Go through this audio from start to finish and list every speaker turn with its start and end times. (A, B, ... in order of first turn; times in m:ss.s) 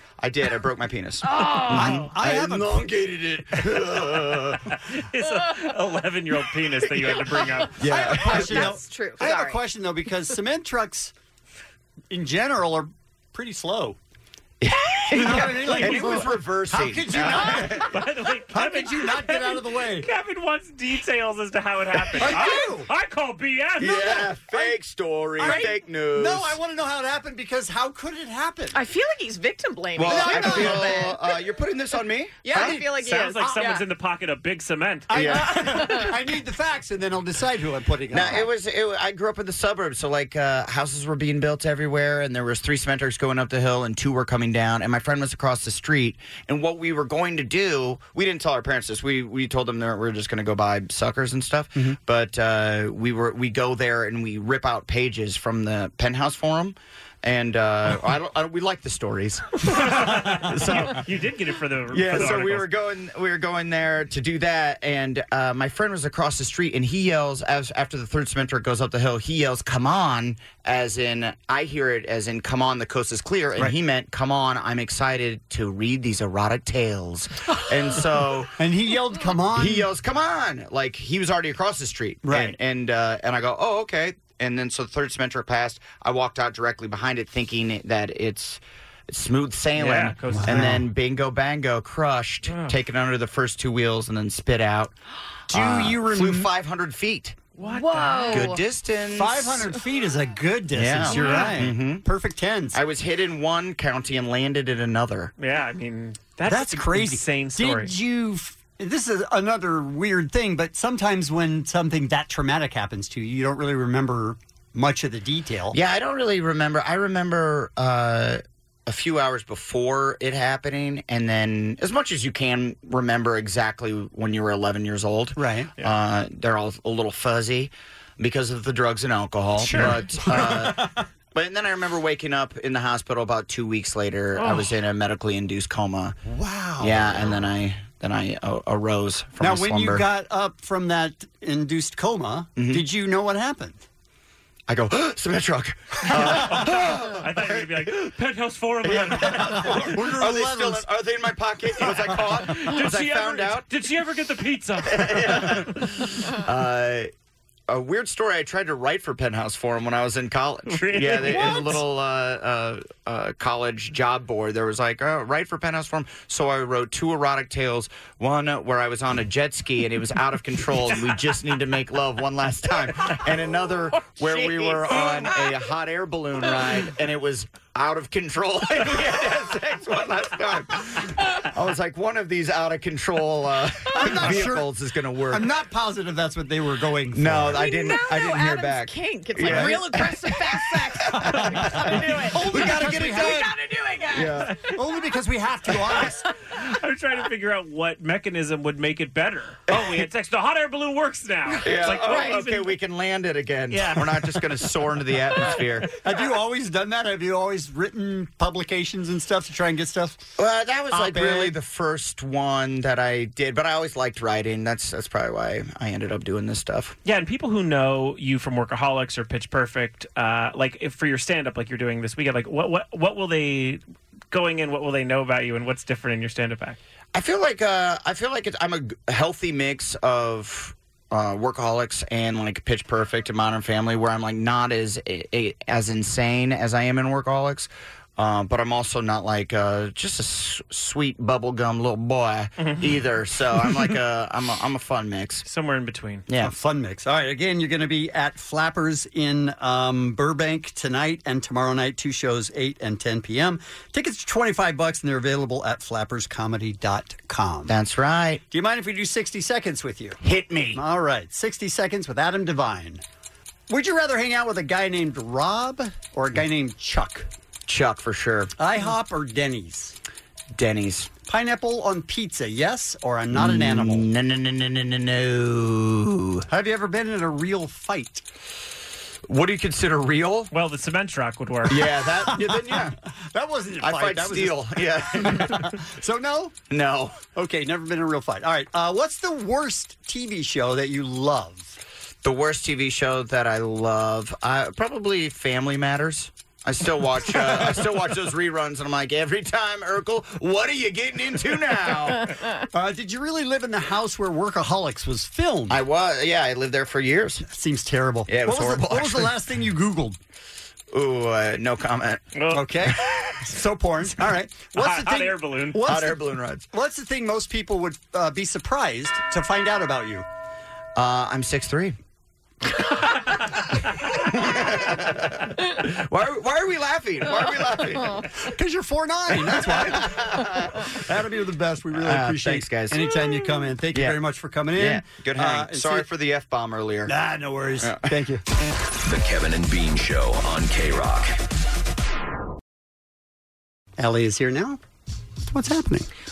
0:00.2-0:04.6 A
0:01.2-0:02.0 B
0:01.7-0:04.2 C
0:01.8-0:02.1 D
0:04.7-0:07.8 D
0:07.8-0:08.7 A
0:07.8-0:11.1 C
0:07.9-0:09.6 B
0:12.1-0:14.0 C
0:14.6-0:17.9 A
0:15.1-0:17.9 C
0:15.5-0:16.2 D
0:17.8-0:24.3 D
0:18.5-0:20.1 C
0:22.2-0:22.9 C
0:23.8-0:26.6 A
0:25.4-0:28.8 C
0:25.4-0:25.7 B
0:28.7-0:31.4 B
0:30.0-0:32.8 A
0:30.0-0:31.1 C
0:32.4-0:33.8 B
0:32.5-0:32.9 C
0:32.8-0:35.5 D
0:35.1-0:35.6 A
0:35.1-0:38.5 C
0:35.2-0:36.1 B
0:38.1-1:01.0 A
0:59.7-1:02.7 D
1:01.9-1:18.5 A
1:18.6-1:19.9 C
1:19.5-1:34.9 A
1:22.2-1:22.5 C
1:29.8-1:30.8 D
1:30.3-1:30.8 C
1:32.4-1:32.8 D
1:35.5-1:36.5 C
1:35.5-1:37.4 A
1:37.6-1:38.5 D
1:37.6-1:38.6 B
1:38.3-1:39.7 A
1:39.1-1:42.8 C
1:40.7-1:42.0 A
1:41.1-1:41.6 B
1:42.7-1:45.3 A
1:45.4-1:47.9 D
1:46.4-1:55.8 C
1:55.7-2:16.1 A
2:05.4-2:05.7 C
2:09.6-2:10.0 D
2:09.7-2:11.0 C
2:14.4-2:14.8 D
2:16.2-2:17.4 C
2:16.8-2:20.0 A
2:19.4-2:23.8 C
2:22.6-2:22.8 A
2:24.7-2:27.6 A
2:26.1-2:30.0 D
2:28.8-2:33.6 A
2:29.3-2:30.9 C
2:31.8-2:32.5 C
2:32.2-2:35.6 D
2:34.8-2:37.1 A
2:37.7-3:05.5 A
2:40.6-2:41.8 D
2:54.3-2:55.3 D
3:03.9-3:04.7 C
3:05.3-3:07.7 C
3:07.1-3:11.8 A
3:07.5-3:14.5 B
3:09.4-3:10.1 C
3:11.3-3:12.4 D
3:11.9-3:13.5 C
3:12.4-3:13.5 A
3:14.1-3:14.6 A
3:14.6-3:16.2 C
3:16.6-3:22.8 D
3:19.7-3:20.0 A
3:21.5-3:25.9 A
3:23.7-3:24.7 D
3:25.4-3:25.6 D
3:26.0-3:30.2 C
3:30.4-3:37.0 A
3:30.9-3:31.5 C
3:37.0-3:46.8 D
3:47.1-4:05.4 A
4:02.6-4:03.0 D
4:05.4-4:06.2 D
4:06.3-4:06.5 A
4:06.4-4:17.7 C
4:17.7-4:18.4 A
4:18.5-4:20.2 C
4:20.2-4:20.8 A
4:20.7-4:23.0 C
4:23.7-4:27.3 C
4:27.7-4:28.5 A
4:28.6-4:30.0 C
4:30.5-4:31.1 A
4:31.3-4:34.1 C
4:33.3-4:36.4 A
4:36.5-4:38.2 C
4:39.3-4:40.5 A
4:40.5-4:41.9 D
4:41.7-4:42.9 A
4:42.3-4:46.6 C
4:43.8-4:45.7 A
4:46.7-4:47.2 A
4:47.3-4:51.8 C
4:52.2-5:02.4 A
5:02.7-5:05.8 C
5:05.7-5:07.4 A
5:07.4-5:10.2 C
5:08.3-5:09.3 A
5:10.9-5:12.2 A
5:12.3-5:12.9 D
5:12.5-5:20.2 C
5:14.7-5:16.1 D
5:15.8-5:16.6 A
5:21.0-5:22.0 A
5:24.3-5:28.2 A
5:28.4-5:36.1 C
5:29.9-5:30.8 A
5:31.9-5:33.1 A
5:33.9-5:34.2 A
5:34.7-5:37.1 A
5:37.0-5:38.4 C
5:37.8-5:38.0 A
5:39.0-5:41.4 E
5:44.0-5:44.8 C
5:45.4-5:46.1 C